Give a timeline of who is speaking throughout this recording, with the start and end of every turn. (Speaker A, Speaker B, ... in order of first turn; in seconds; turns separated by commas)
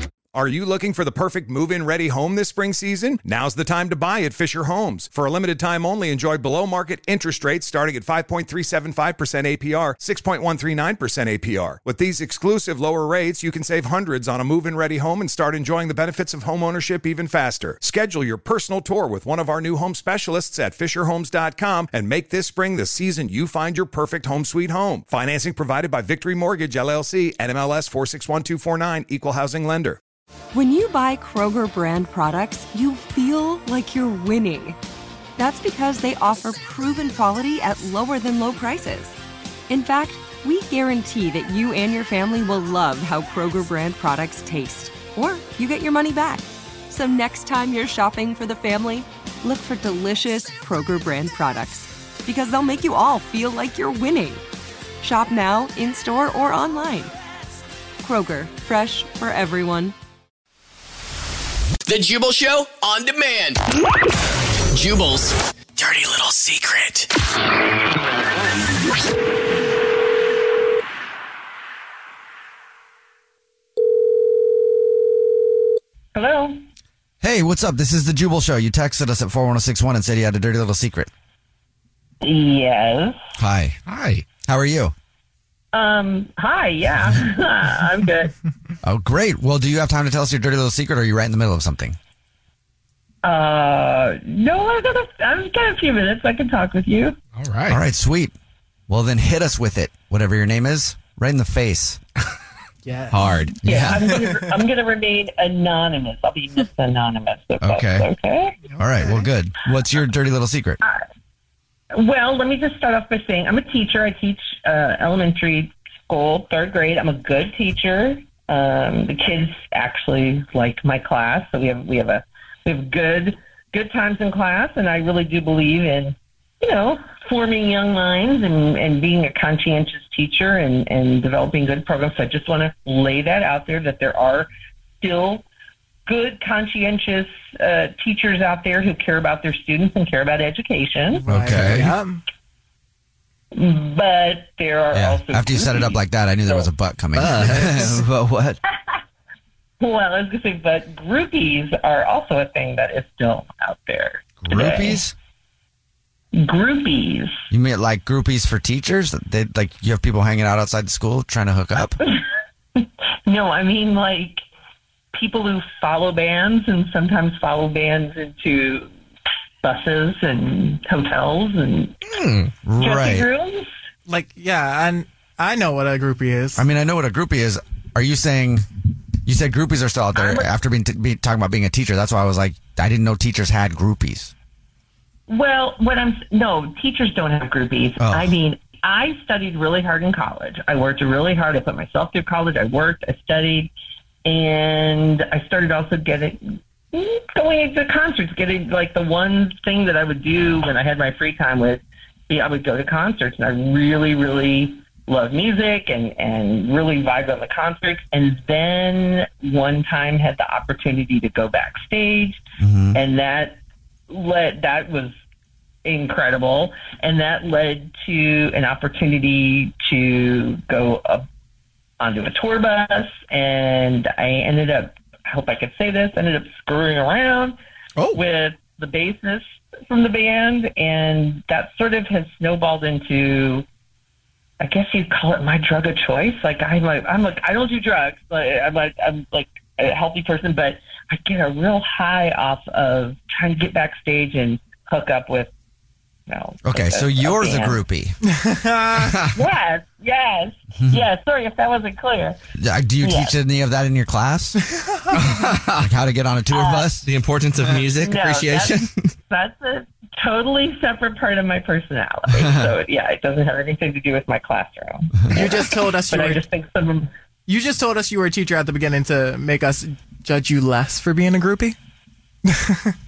Speaker A: 0.3-30.0, Speaker B: 30.5-34.8, Speaker B: 35.4-39.1, Speaker B: 39.7-54.4, Speaker B: 55.0-57.1, Speaker B: 58.0-59.9, Speaker C: 61.9-63.6, Speaker C: 64.7-67.1, Speaker D: 76.1-76.6, Speaker E: 77.2-81.1, Speaker D: 82.2-83.1, Speaker E: 83.4-84.9, Speaker F: 83.8-84.3, Speaker D: 85.7-88.3, Speaker E: 88.8-92.0, Speaker D: 93.2-97.2, Speaker F: 97.4-97.8, Speaker E: 97.7-98.3, Speaker E: 98.9-102.0, Speaker G: 102.8-103.7, Speaker E: 103.1-104.0, Speaker D: 103.6-108.6, Speaker E: 107.6-108.1, Speaker E: 108.8-110.8, Speaker D: 111.9-134.5, Speaker D: 135.0-135.4, Speaker D: 136.1-141.2, Speaker G: 141.1-142.2, Speaker E: 141.3-141.9, Speaker D: 143.5-146.7, Speaker E: 144.9-148.6, Speaker F: 147.2-147.5, Speaker D: 149.8-155.0, Speaker E: 154.4-155.1, Speaker D: 156.3-157.3, Speaker E: 157.5-162.0, Speaker D: 162.8-164.4, Speaker D: 165.1-168.9, Speaker D: 169.6-171.9, Speaker F: 172.2-172.5, Speaker E: 172.6-173.3, Speaker D: 172.8-173.7, Speaker G: 174.1-176.6, Speaker E: 176.6-178.7, Speaker E: 179.2-184.3, Speaker D: 180.1-180.5, Speaker D: 185.3-193.7, Speaker E: 188.0-188.3, Speaker D: 194.2-213.6, Speaker E: 212.6-213.0, Speaker D: 214.1-215.1, Speaker D: 215.8-221.2, Speaker D: 222.0-227.5, Speaker D: 228.1-233.7, Speaker D: 234.6-245.5, Speaker D: 246.3-247.8, Speaker E: 246.6-248.2, Speaker G: 248.3-249.0, Speaker D: 249.3-252.4, Speaker E: 252.6-254.6, Speaker D: 253.0-253.3, Speaker E: 255.8-257.1, Speaker D: 256.5-256.9, Speaker F: 257.0-258.9, Speaker D: 258.0-267.1, Speaker G: 265.3-266.4, Speaker G: 267.5-271.8, Speaker G: 272.5-272.8